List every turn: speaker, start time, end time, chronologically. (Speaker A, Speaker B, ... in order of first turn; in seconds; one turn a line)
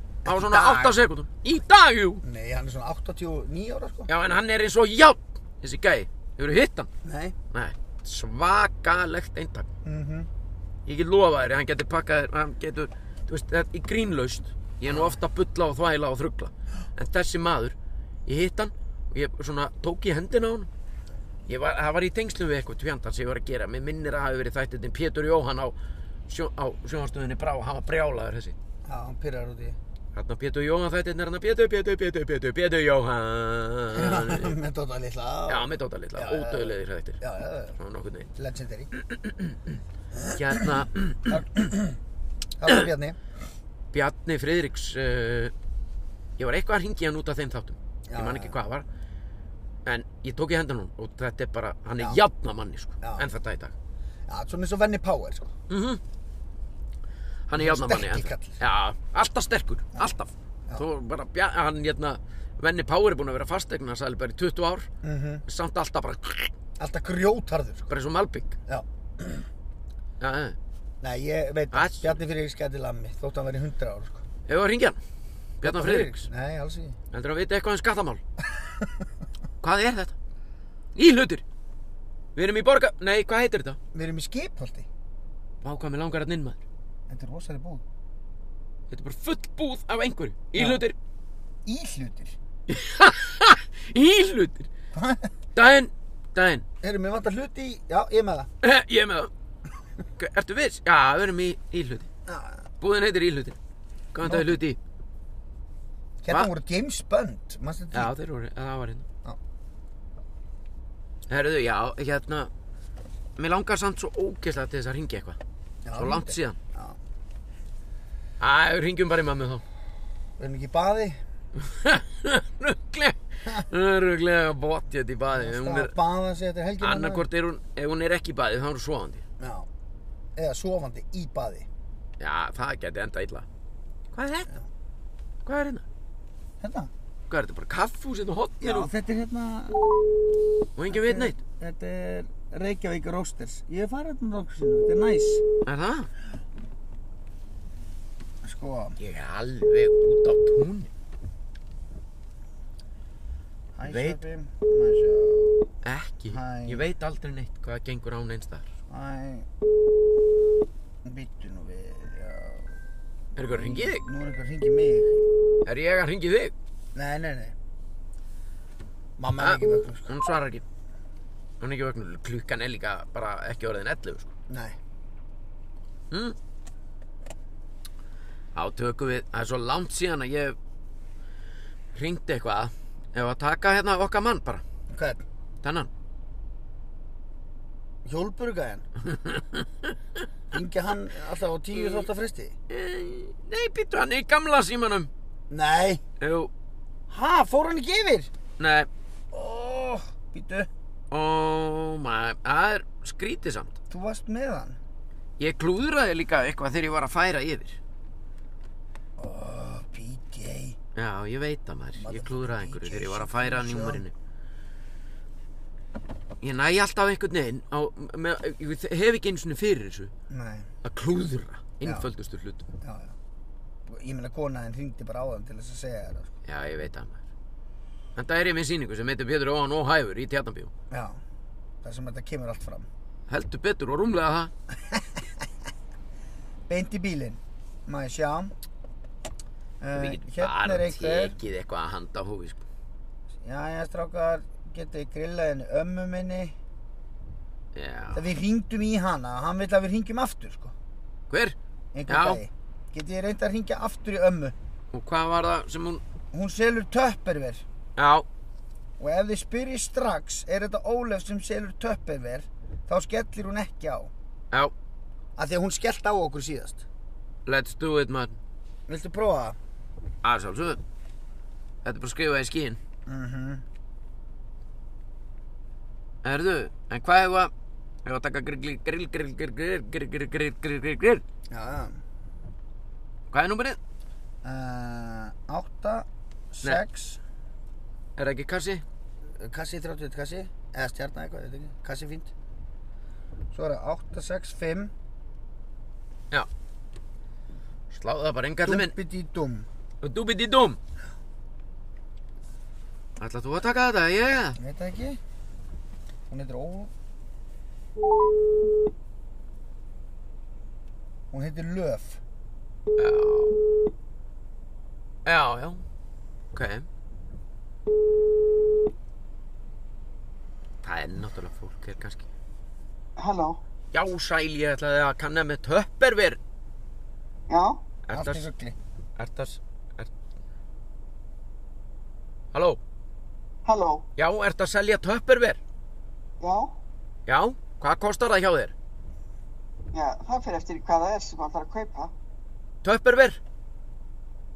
Speaker A: 0.2-0.9
Speaker B: 0.2-2.2
Speaker A: 2.2-4.1
Speaker B: 4.1-6.9
Speaker A: 7.0-7.3
Speaker B: 7.5-9.7
Speaker A: 9.8-10.3
Speaker B: 10.8-20.7
Speaker A: 14.8-15.2
Speaker B: 21.5-25.8
Speaker B: 26.3-28.6
Speaker A: 28.8-29.8
Speaker B: 30.1-34.6
Speaker A: 33.9-37.8
Speaker B: 35.5-37.2
Speaker B: 37.8-38.3
Speaker A: 38.4-38.9
Speaker B: 38.9-39.8
Speaker A: 40.1-42.0
Speaker B: 40.3-41.4
Speaker A: 42.6-43.2
Speaker B: 43.9-45.5
Speaker B: 46.4-48.9
Speaker A: 48.1-48.5
Speaker B: 49.8-53.7
Speaker A: 53.0-53.3
Speaker A: 54.3-55.5
Speaker B: 55.7-56.0
Speaker B: 57.5-64.9
Speaker A: 57.5-58.6
Speaker A: 65.0-65.4
Speaker B: 65.5-66.5
Speaker A: 66.8-67.9
Speaker B: 67.9-68.6
Speaker A: 68.7-69.5
Speaker B: 70.2-70.6
Speaker A: 71.0-74.2
Speaker B: 71.7-72.2
Speaker B: 74.5-75.0
Speaker B: 75.6-76.3
Speaker A: 75.6-77.0
Speaker B: 77.1-78.2
Speaker B: 79.6-80.1
Speaker B: 80.9-81.4
Speaker B: 82.3-83.8
Speaker A: 83.9-84.9
Speaker B: 85.6-86.6
Speaker A: 87.1-87.8
Speaker B: 88.9-91.0
Speaker A: 90.5-90.8
Speaker A: 91.7-92.3
Speaker B: 92.7-94.7
Speaker A: 94.9-95.3
Speaker B: 95.5-96.6
Speaker A: 96.8-98.5
Speaker B: 98.6-99.3
Speaker B: 100.2-102.1
Speaker A: 102.3-102.6
Speaker B: 102.8-103.6
Speaker B: 104.1-104.8
Speaker A: 104.2-104.6
Speaker A: 106.2-108.1
Speaker B: 107.9-109.0
Speaker B: 111.3-112.5
Speaker B: 113.4-115.4
Speaker A: 115.8-117.0
Speaker B: 116.0-116.6
Speaker B: 118.4-119.6
Speaker A: 120.4-121.2
Speaker B: 121.5-125.9
Speaker A: 125.3-127.2
Speaker B: 126.8-129.2
Speaker A: 129.4-129.7
Speaker A: 130.3-131.7
Speaker B: 132.2-133.4
Speaker B: 134.1-134.5
Speaker B: 135.4-135.8
Speaker A: 136.6-136.9
Speaker B: 137.3-138.9
Speaker A: 138.6-139.9
Speaker B: 140.8-141.4
Speaker A: 140.9-145.4
Speaker B: 145.6-146.1
Speaker A: 148.4-149.0
Speaker B: 149.0-150.9
Speaker A: 153.8-155.7
Speaker B: 153.9-154.2
Speaker B: 155.8-158.7
Speaker A: 156.3-156.9
Speaker A: 158.9-159.5
Speaker A: 161.0-162.8
Speaker B: 163.3-164.1
Speaker A: 163.4-165.2
Speaker B: 165.6-166.5
Speaker A: 166.9-167.5
Speaker A: 169.2-170.1
Speaker B: 169.4-170.6
Speaker B: 171.6-174.3
Speaker A: 174.5-174.8
Speaker B: 176.1-176.4
Speaker B: 178.5-180.6
Speaker B: 181.9-184.6
Speaker A: 184.9-185.2
Speaker B: 185.6-185.9
Speaker A: 188.0-188.8
Speaker B: 189.1-189.9
Speaker A: 190.5-192.5
Speaker B: 191.7-192.1
Speaker B: 192.7-195.1
Speaker A: 195.5-196.0
Speaker B: 196.2-196.5
Speaker A: 197.1-198.3
Speaker B: 198.6-198.9
Speaker A: 199.3-200.7
Speaker B: 201.1-203.7
Speaker A: 203.9-204.8
Speaker B: 205.4-207.8
Speaker A: 209.2-210.8
Speaker B: 210.9-214.1
Speaker A: 211.9-214.0
Speaker B: 216.4-220.1
Speaker A: 220.3-220.7
Speaker B: 220.8-222.7
Speaker A: 221.8-222.1
Speaker A: 222.8-223.1
Speaker A: 223.9-226.3
Speaker B: 226.4-227.2
Speaker B: 228.1-230.7
Speaker A: 230.9-231.2
Speaker A: 231.8-232.9
Speaker B: 233.3-234.5
Speaker A: 236.7-238.5
Speaker A: 239.8-241.3
Speaker B: 239.9-242.6
Speaker A: 243.4-246.5
Speaker B: 247.7-248.3
Speaker A: 248.1-250.7
Speaker B: 251.3-251.6
Speaker A: 251.9-254.5
Speaker B: 252.1-252.4
Speaker B: 254.9-256.0
Speaker A: 256.3-257.6
Speaker B: 258.0-258.2
Speaker A: 259.0-264.1
Speaker A: 265.4-266.8
Speaker B: 267.4-268.4
Speaker A: 268.9-269.6
Speaker B: 270.2-270.8
Speaker B: 271.8-272.8
Speaker A: 273.1-273.6
Speaker B: 276.2-277.5
Speaker B: 278.0-281.2
Speaker A: 281.5-282.0
Speaker B: 283.3-283.8
Speaker A: 284.4-287.2
Speaker B: 288.1-288.8
Speaker A: 289.4-292.3
Speaker A: 293.5-294.9
Speaker B: 297.9-298.9
Speaker A: 298.6-299.6
Speaker B: 300.0-300.8
Speaker B: 303.2-304.6
Speaker A: 304.6-305.2
Speaker A: 306.3-306.9
Speaker A: 311.3-312.2
Speaker B: 312.9-313.6
Speaker B: 315.2-315.8
Speaker B: 316.5-316.9
Speaker B: 320.8-322.3
Speaker C: 323.2-323.6
Speaker B: 323.9-326.4
Speaker C: 327.5-327.8
Speaker B: 328.1-328.5
Speaker A: 328.1-328.8
Speaker B: 329.2-330.1
Speaker B: 332.5-332.8
Speaker C: 333.6-334.1
Speaker B: 334.1-335.6
Speaker C: 336.4-336.7
Speaker B: 337.3-338.7
Speaker C: 339.9-342.1
Speaker B: 342.8-343.4